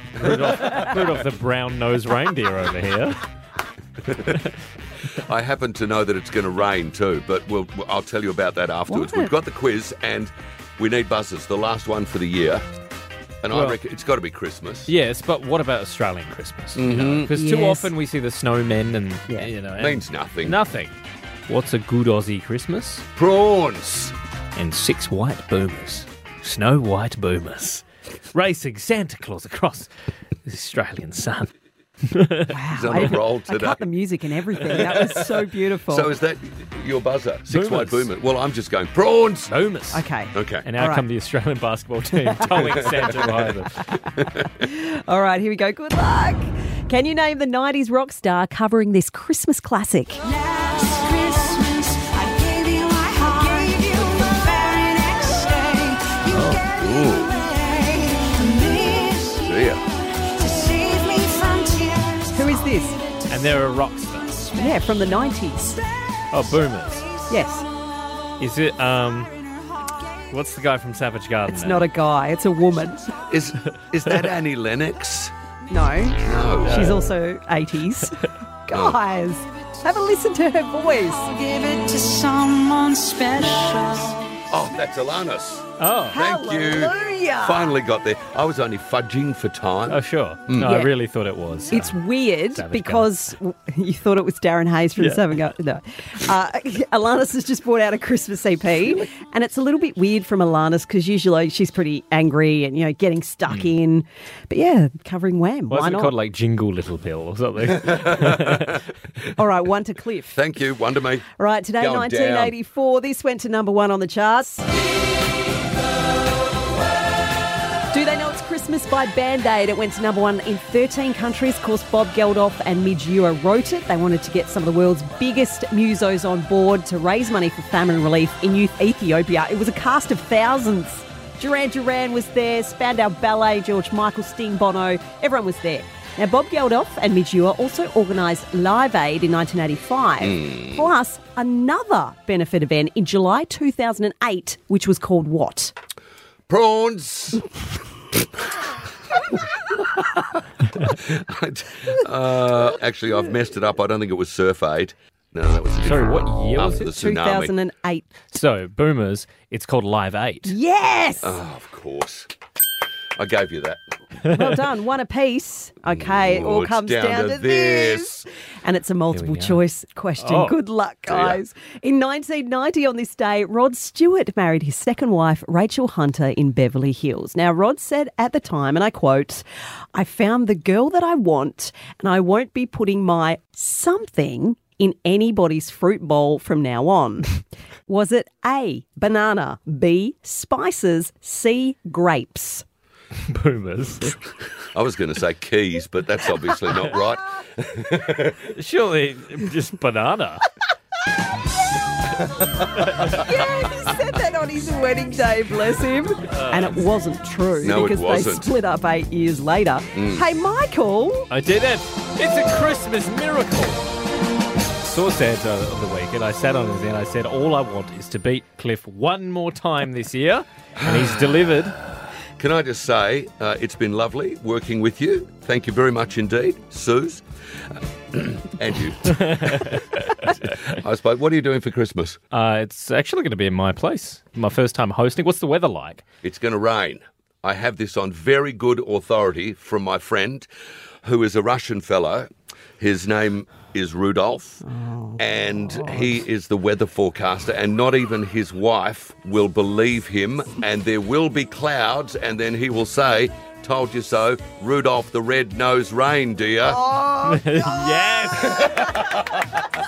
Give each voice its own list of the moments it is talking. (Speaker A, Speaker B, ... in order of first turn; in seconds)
Speaker A: 0.2-1.2, 4.1-4.4, 5.1-12.6, 13.4-14.9, 16.8-17.3, 19.8-20.6, 23.2-24.1, 32.7-33.9, 34.7-35.2, 35.9-39.5, 40.3-40.7, 56.7-57.4, 59.3-59.9, 73.3-75.3, 76.2-77.0, 78.7-79.0, 84.5-90.7, 110.3-111.3, 111.8-112.5, 146.5-147.5, 150.8-157.5, 161.2-162.3, 163.2-163.8, 165.9-168.3, 171.1-171.4, 194.7-198.4, 207.6-208.5, 209.9-210.2, 220.8-221.5, 222.4-227.2, 228.1-232.2, 236.2-240.5, 241.0-256.8
Speaker B: 0.2-3.2, 13.5-13.8, 14.9-20.9, 21.5-23.1, 24.6-29.9, 30.4-31.5, 32.1-32.6, 37.5-38.1, 39.5-40.0, 40.6-43.8, 56.3-56.7, 63.3-64.5, 66.3-67.2, 68.4-69.3, 70.3-71.9, 76.6-77.0, 85.8-86.2, 89.9-92.0, 92.5-93.1, 95.0-95.2, 105.7-108.9, 155.8-156.9, 158.3-160.6, 169.1-169.6, 170.2-170.6, 193.3-194.2, 198.5-200.5, 206.3-206.8, 211.3-213.8, 214.8-221.8, 229.1-230.3, 232.3-236.0, 257.2-258.7
Speaker C: 8.9-9.3, 17.3-17.9, 32.5-36.1, 39.9-41.1, 42.3-43.1, 44.0-50.2, 62.3-63.0, 64.5-65.8, 67.3-67.7, 71.5-73.2, 75.7-81.3, 86.1-87.8, 90.6-90.9, 91.7-106.2, 109.4-110.4, 111.3-114.7, 117.9-145.7, 156.8-158.1, 160.5-161.4, 164.3-192.7, 202.9-211.3, 244.8-245.2, 256.7-259.1
Speaker D: 50.4-59.5, 60.1-62.4, 81.3-84.4